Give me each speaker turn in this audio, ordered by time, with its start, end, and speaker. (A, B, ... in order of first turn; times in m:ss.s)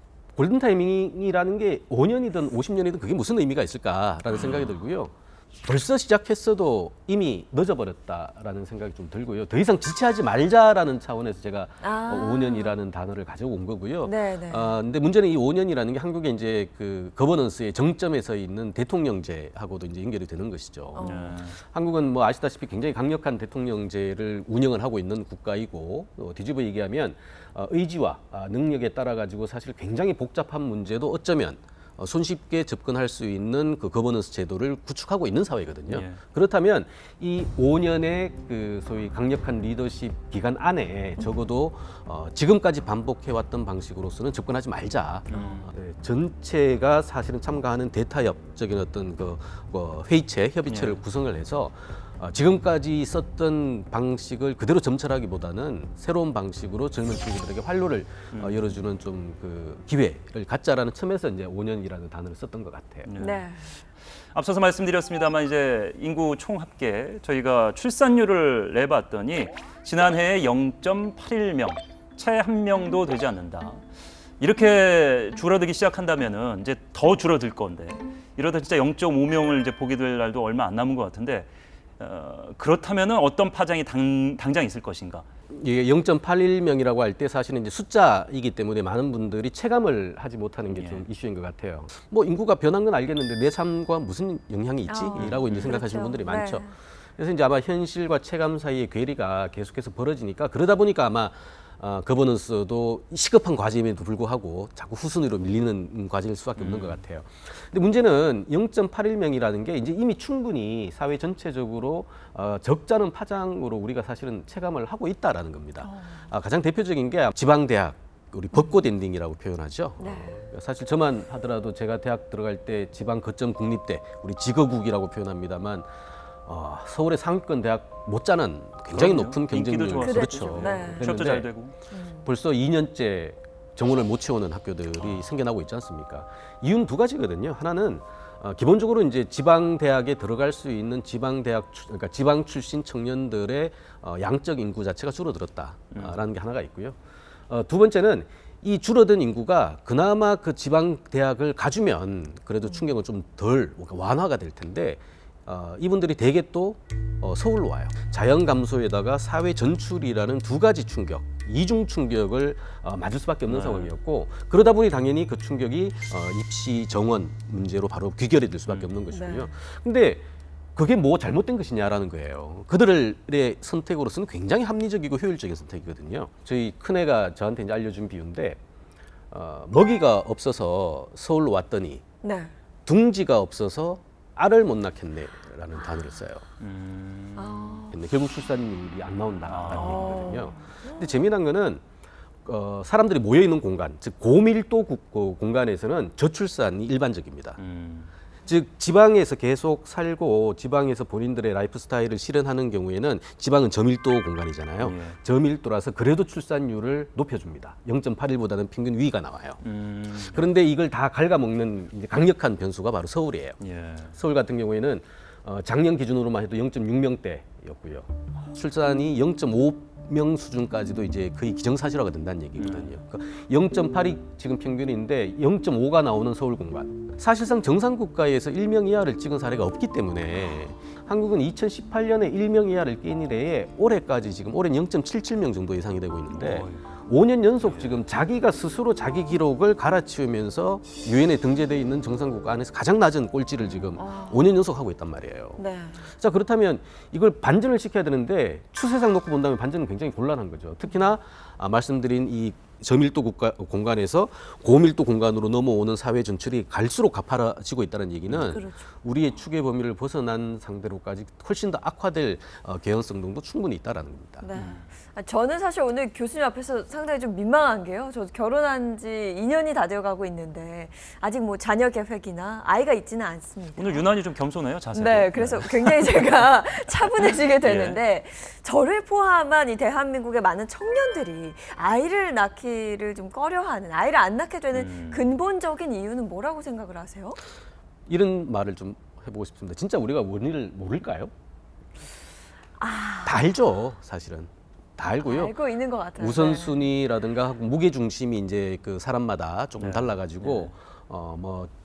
0:00.4-1:03.1 A
0:04.3-0:04.7 B
0:11.8-0:12.8 C
0:14.0-0:14.8 C
0:21.0-0:21.4 C
0:21.0-0:21.6 B
0:35.9-0:36.2 B
0:45.3-0:45.7 B
0:45.3-0:45.7 C
0:50.7-0:51.0 B
0:58.3-0:58.6 B
1:03.1-1:03.5 B
1:03.2-1:03.7 C
1:04.3-1:13.8 B
1:14.4-1:25.2 B
1:25.5-2:05.9 A
1:30.7-1:31.1 B
1:34.9-1:36.8 C
1:35.2-1:35.8 B
1:46.6-1:47.0 B
1:55.9-1:56.2 C
2:00.0-2:00.4 C
2:06.5-2:11.5 A
2:08.9-2:11.8 B
2:10.0-2:11.1 C
2:11.9-2:12.3 C
2:12.2-2:27.0 A
2:25.9-2:26.2 B
2:27.5-2:58.6 A
2:43.5-2:43.9 B
2:48.7-2:49.0 B
2:49.1-2:49.5 C
2:59.3-3:02.0 A
3:02.2-3:02.5 C
3:02.9-3:06.5 A
3:06.6-3:07.8 B
3:07.4-3:08.0 C
3:07.9-3:11.8 A
3:09.5-3:10.2 B
3:09.7-3:11.2 C
3:12.4-3:17.6 A
3:17.6-3:18.1 B
3:18.4-3:29.6 A
3:24.8-3:25.2 B
3:29.6-3:30.5 B
3:30.2-3:33.6 A
3:33.6-3:34.2 B
3:34.2-4:24.5 A
3:42.6-3:42.9 B
3:56.3-3:56.9 B
3:57.6-3:58.0 B
4:04.0-4:04.5 C
4:05.6-4:06.0 C
4:18.4-4:18.9 C
4:24.4-4:34.0 C
4:24.5-4:24.8 B
4:33.8-4:36.5 B
4:34.9-4:47.4 C
4:37.0-4:38.0 B
4:44.7-4:45.2 B
4:48.1-4:51.3 A
4:52.8-4:53.4 C
4:53.2-4:55.6 A
4:55.2-4:56.9 C
4:56.2-5:01.7 A
4:59.8-5:00.7 B